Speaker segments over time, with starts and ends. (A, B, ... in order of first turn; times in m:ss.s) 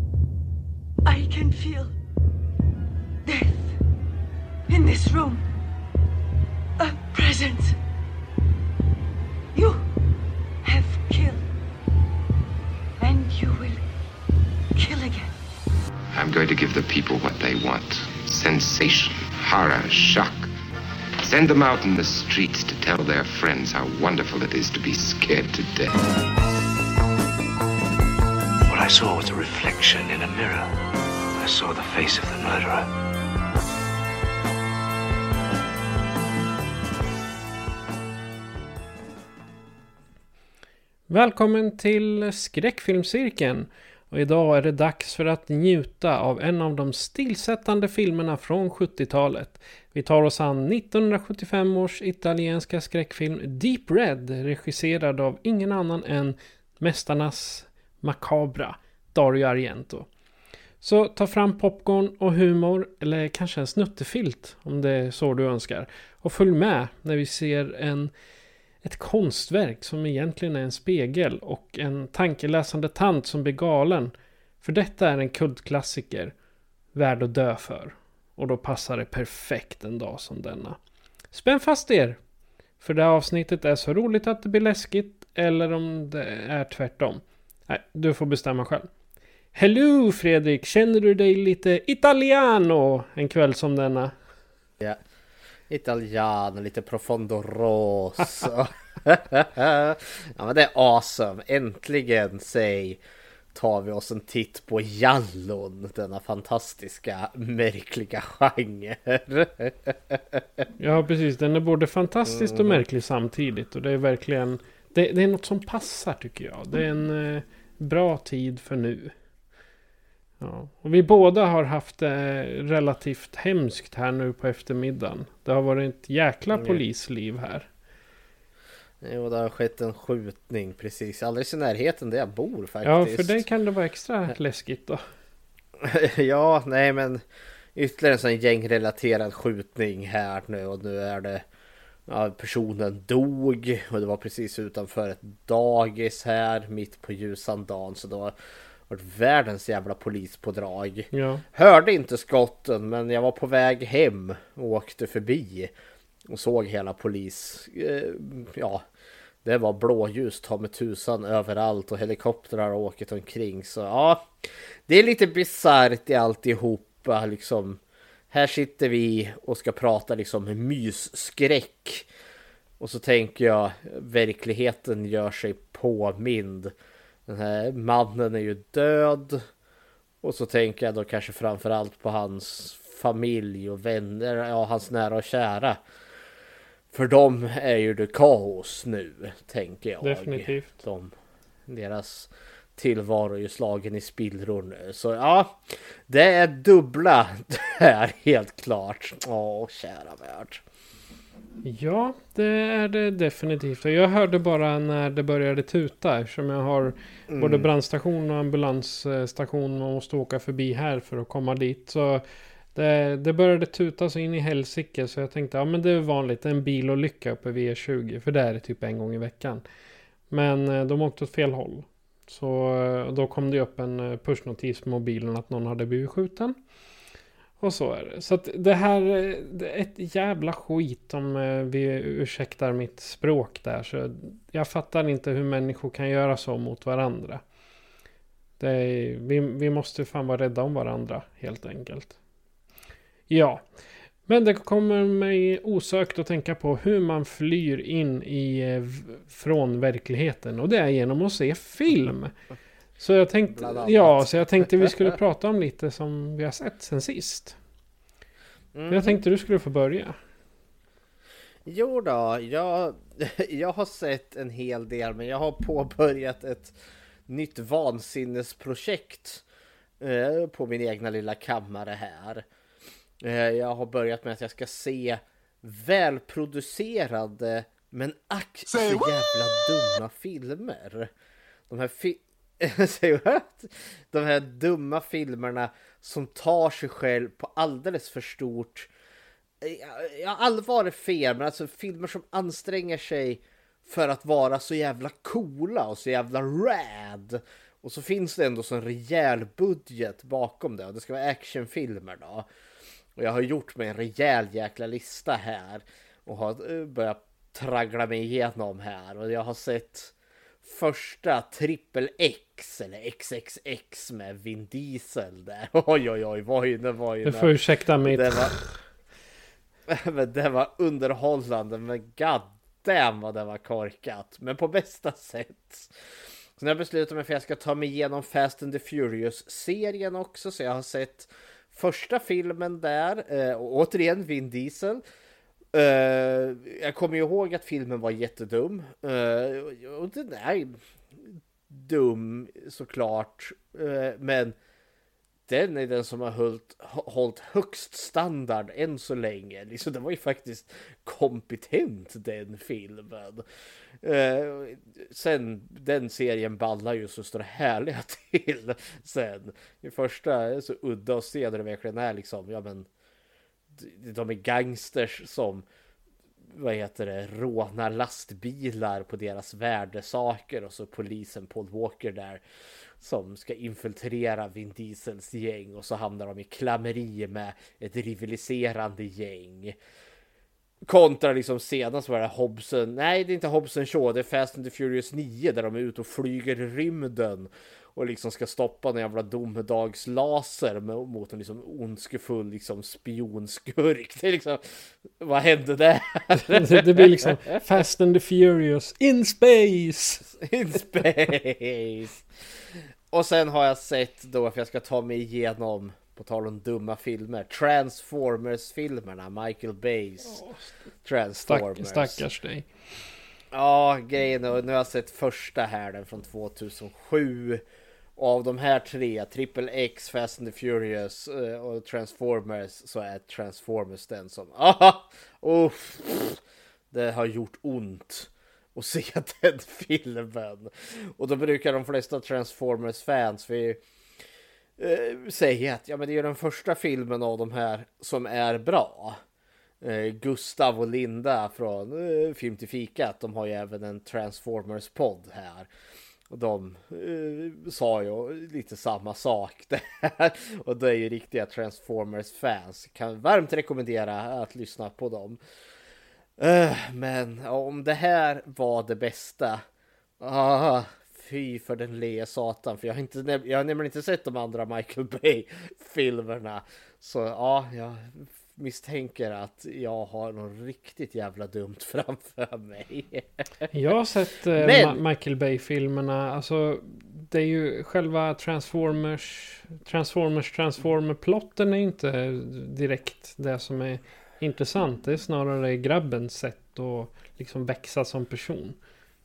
0:01.0-0:01.9 A
0:03.2-0:03.8 A
0:04.7-0:05.4 A
0:06.8-0:07.8 A
0:09.5-0:09.9 A
0:10.6-0:11.4 A
0:13.0-0:13.8 A
0:14.7-0:15.3 A
0:16.1-0:20.5 B
0:21.2-0:26.0 B
0:28.7-0:30.7 C
0:31.4-0:32.9 C
0:41.1-1:00.1 D
1:00.8-1:08.1 D
1:08.8-1:16.3 D
1:16.9-1:20.8 D
1:21.3-1:22.2 D
1:22.8-1:28.9 D
1:29.5-1:34.1 D
1:35.7-1:43.0 E
1:43.5-1:50.6 E
1:50.8-1:59.1 D
1:52.2-1:52.8 E
2:00.4-2:07.7 D
2:06.5-2:06.8 E
2:09.0-2:13.4 E
2:12.8-2:15.0 D
2:15.8-2:17.2 E
2:17.7-2:21.4 E
2:22.1-2:28.3 E
2:28.9-2:35.7 E
2:31.1-2:31.4 D
2:36.3-2:38.8 E
2:39.4-2:52.1 E
2:52.8-2:56.7 E
2:57.3-2:59.4 E
3:00.2-3:05.8 E
3:06.9-3:11.1 E
3:10.0-3:10.8 D
3:11.7-3:20.6 E
3:21.6-3:32.2 D
3:27.3-3:27.7 E
3:32.7-3:39.6 D
3:40.3-3:46.6 D
3:47.6-3:57.4 D
3:58.6-4:02.2 D
4:03.3-4:03.7 D
4:04.2-4:12.3 D
4:13.0-4:17.6 D
4:13.5-4:15.1 E
4:18.7-4:19.2 E
4:18.9-4:20.2 D
4:21.6-4:26.8 E
4:27.3-4:29.4 E
4:30.0-4:32.4 E
4:33.2-4:41.1 E
4:41.7-4:48.9 E
4:49.6-5:02.5 E
5:03.2-5:18.6 E
5:17.2-5:18.8 D
5:19.9-5:25.9 E
5:26.6-5:35.0 E
5:35.7-5:44.6 E
5:45.5-5:53.5 E
5:54.0-6:02.9 E
6:03.7-6:05.6 E
6:06.5-6:12.4 E
6:13.0-6:19.8 E
6:20.8-6:37.4 E
6:36.3-6:40.3 D
6:40.4-6:50.4 E
6:50.3-6:50.6 D
6:51.0-6:52.2 E
6:51.5-6:52.7 D
6:53.5-6:57.6 E
6:58.2-7:13.8 E
7:14.8-7:19.2 E
7:19.8-7:25.7 E
7:26.3-7:35.4 E
7:36.4-7:39.6 E
7:40.2-7:53.7 E
7:53.7-8:08.8 D
7:54.6-7:55.0 E